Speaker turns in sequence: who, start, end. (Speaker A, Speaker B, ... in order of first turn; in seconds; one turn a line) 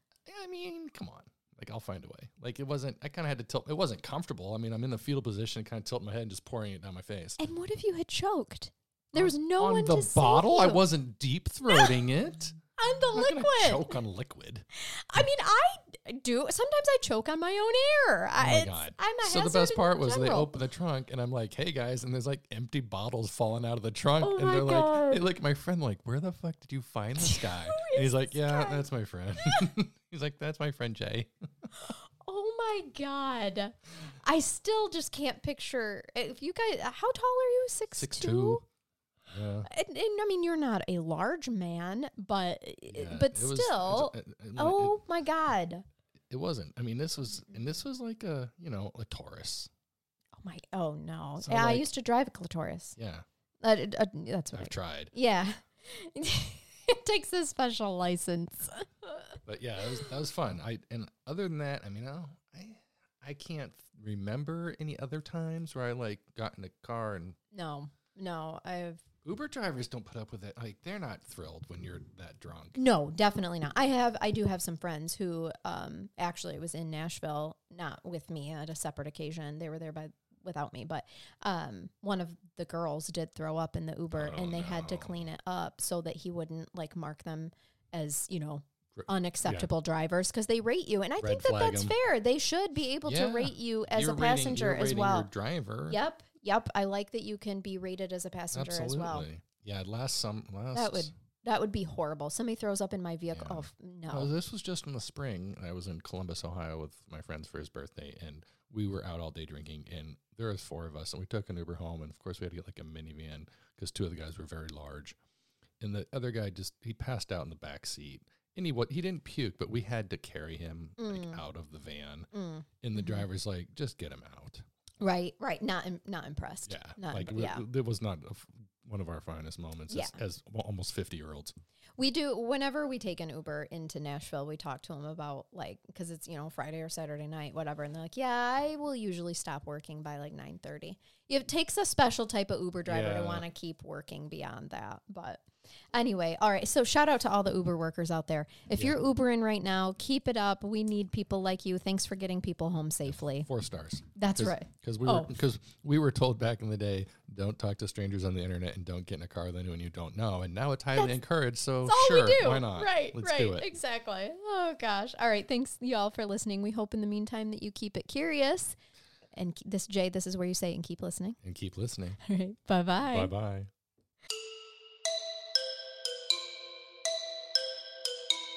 Speaker A: 0.3-7.4
Speaker B: 7.4-10.8
Speaker A: 9.1-12.6
Speaker B: 11.7-11.9
Speaker B: 12.8-13.9
Speaker A: 13.1-14.6
Speaker B: 14.8-20.6
Speaker A: 18.4-31.7
Speaker B: 24.2-25.2
Speaker B: 27.2-28.8
Speaker B: 31.8-38.6
Speaker A: 37.9-38.6
Speaker A: 39.3-39.7
Speaker B: 39.7-45.9
Speaker A: 42.9-45.0
Speaker A: 46.3-49.7
Speaker B: 50.4-53.0
Speaker A: 51.4-51.8
Speaker A: 53.0-53.2
Speaker B: 53.6-59.4
Speaker A: 54.5-55.1
Speaker A: 59.5-67.4
Speaker B: 67.5-69.0
Speaker A: 69.2-72.8
Speaker B: 72.7-95.3
Speaker A: 84.2-85.2
Speaker A: 88.9-89.7
Speaker A: 91.2-91.9
Speaker A: 93.0-96.0
Speaker B: 95.9-99.2
Speaker A: 98.5-101.1
Speaker B: 100.7-104.3
Speaker A: 103.3-115.2
Speaker A: 115.8-124.6
Speaker B: 121.0-121.4
Speaker B: 122.3-123.2
Speaker B: 125.0-127.6
Speaker A: 126.7-131.5
Speaker B: 129.9-130.2
Speaker B: 132.0-153.5
Speaker A: 142.9-143.4
Speaker A: 153.1-163.7
Speaker B: 154.2-155.3
Speaker B: 161.8-168.8
Speaker B: 169.3-171.4
Speaker A: 171.4-172.2
Speaker B: 172.2-173.3
Speaker A: 173.0-173.7